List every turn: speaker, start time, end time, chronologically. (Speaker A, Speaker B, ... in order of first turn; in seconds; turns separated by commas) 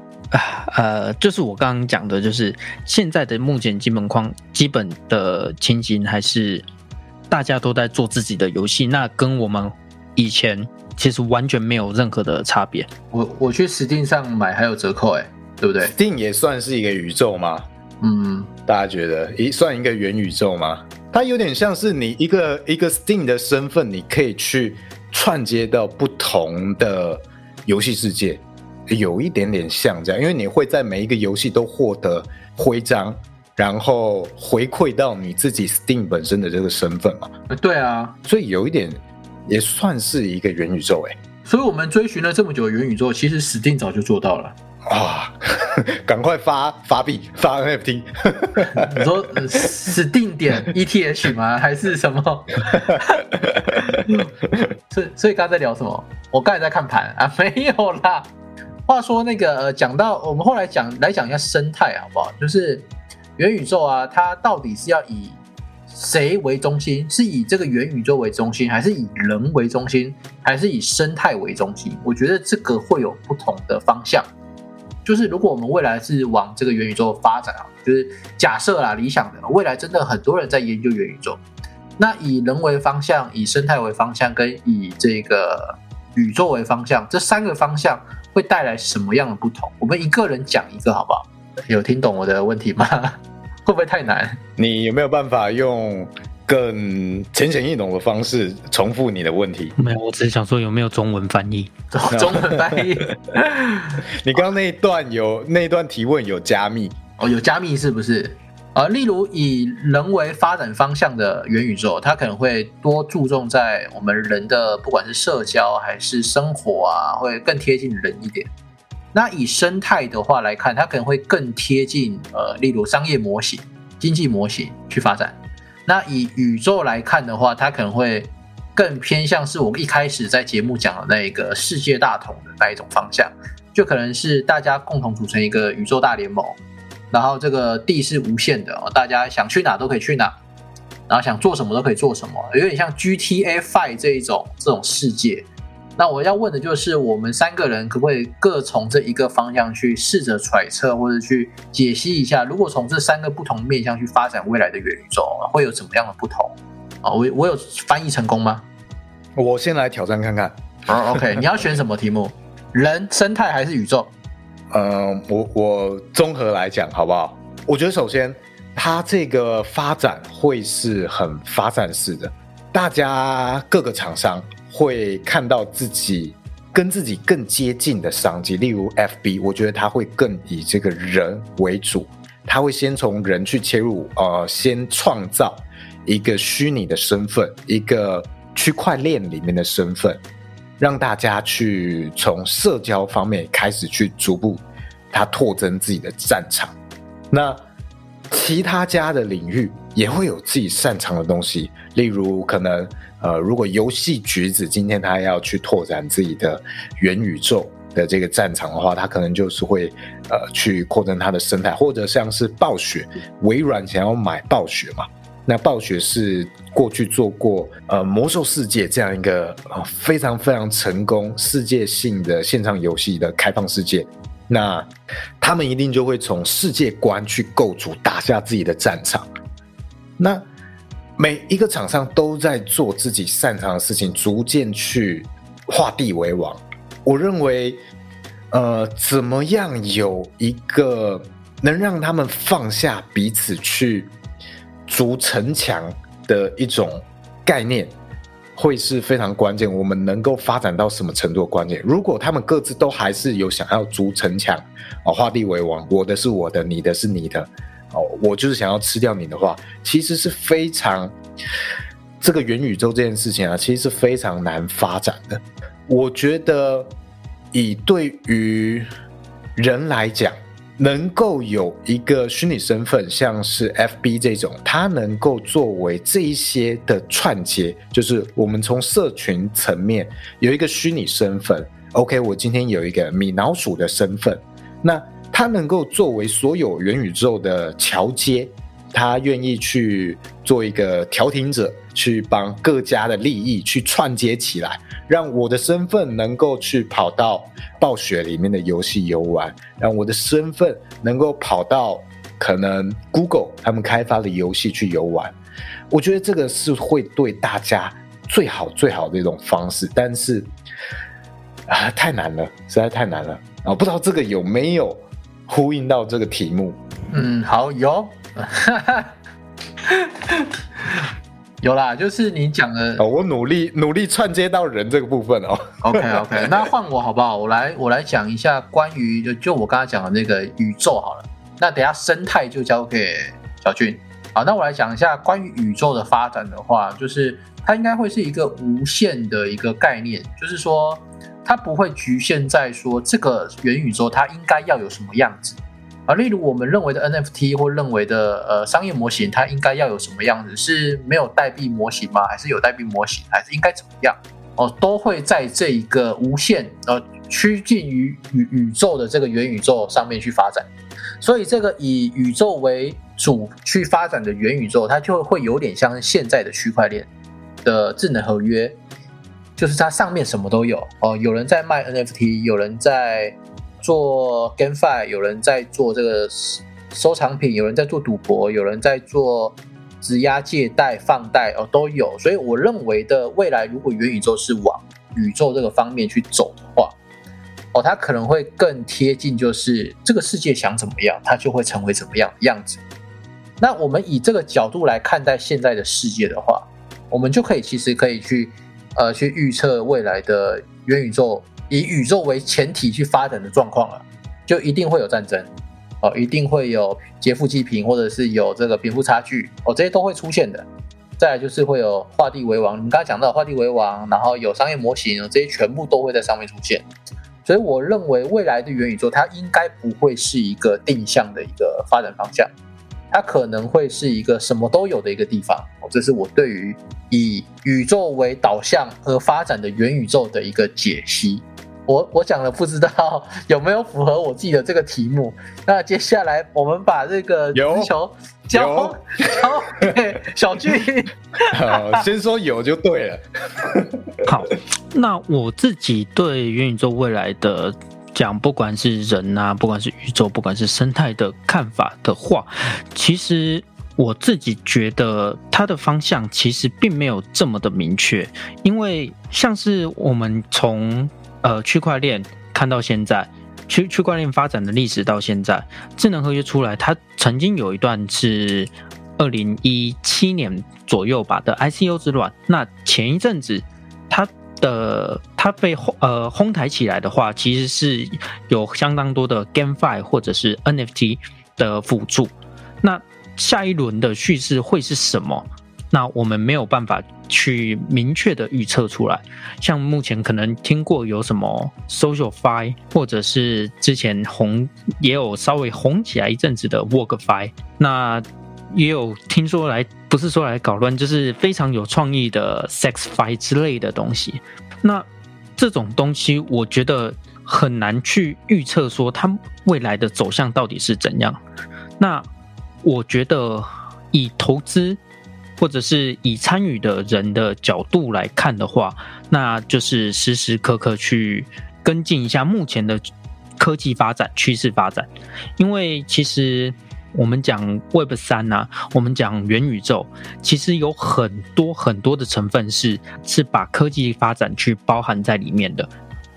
Speaker A: 0.3-6.6, Speaker A: 7.3-12.9, Speaker B: 13.1-15.9, Speaker C: 15.8-17.6, Speaker B: 18.0-18.5, Speaker C: 18.7-37.3, Speaker B: 37.5-38.2, Speaker C: 38.2-41.2, Speaker B: 41.5-44.5, Speaker C: 44.9-49.0, Speaker B: 48.6-53.2, Speaker C: 53.4-54.0, Speaker B: 53.8-54.2, Speaker B: 54.9-58.3, Speaker B: 58.9-62.9, Speaker B: 63.4-65.4, Speaker B: 65.9-74.3, Speaker B: 75.0-81.4, Speaker B: 82.0-94.4, Speaker C: 94.6-99.7, Speaker A: 99.8-101.7, Speaker B: 101.9-104.0, Speaker C: 102.1-102.9, Speaker C: 104.2-107.0, Speaker B: 107.2-118.5, Speaker B: 119.1-136.6, Speaker B: 137.1-140.3, Speaker B: 141.1-145.5, Speaker B: 146.0-158.6, Speaker C: 159.3-160.6, Speaker B: 160.9-164.1, Speaker C: 161.1-161.4, Speaker C: 164.7-190.2, Speaker C: 190.8-196.8, Speaker C: 197.3-197.6, Speaker C: 198.3-224.9, Speaker C: 225.4-229.3, Speaker C: 230.2-230.4, Speaker C: 231.2-237.8, Speaker C: 238.5-244.1, Speaker C: 244.9-247.9, Speaker C: 248.5-261.1, Speaker C: 262.2-266.9, Speaker C: 267.5-268.9, Speaker C: 269.6-305.3, Speaker C: 305.9-310.5, Speaker C: 311.7-316.8, Speaker B: 317.1-319.1, Speaker B: 319.9-320.5, Speaker B: 321.6-323.0, Speaker C: 323.0-326.5, Speaker B: 325.8-360.7, Speaker B: 361.2-367.1, Speaker B: 367.6-368.8, Speaker B: 369.6-387.0, Speaker B: 387.7-392.8, Speaker B: 393.6-405.5, Speaker B: 406.0-410.7, Speaker B: 411.2-416.8, Speaker B: 417.4-422.5, Speaker B: 423.1-442.0, Speaker C: 437.5-437.9, Speaker C: 438.5-439.9, Speaker C: 441.5-444.0, Speaker A: 444.2-511.4, Speaker A: 512.0-512.2, Speaker A: 512.8-515.0, Speaker A: 515.6-523.0, Speaker A: 523.6-535.9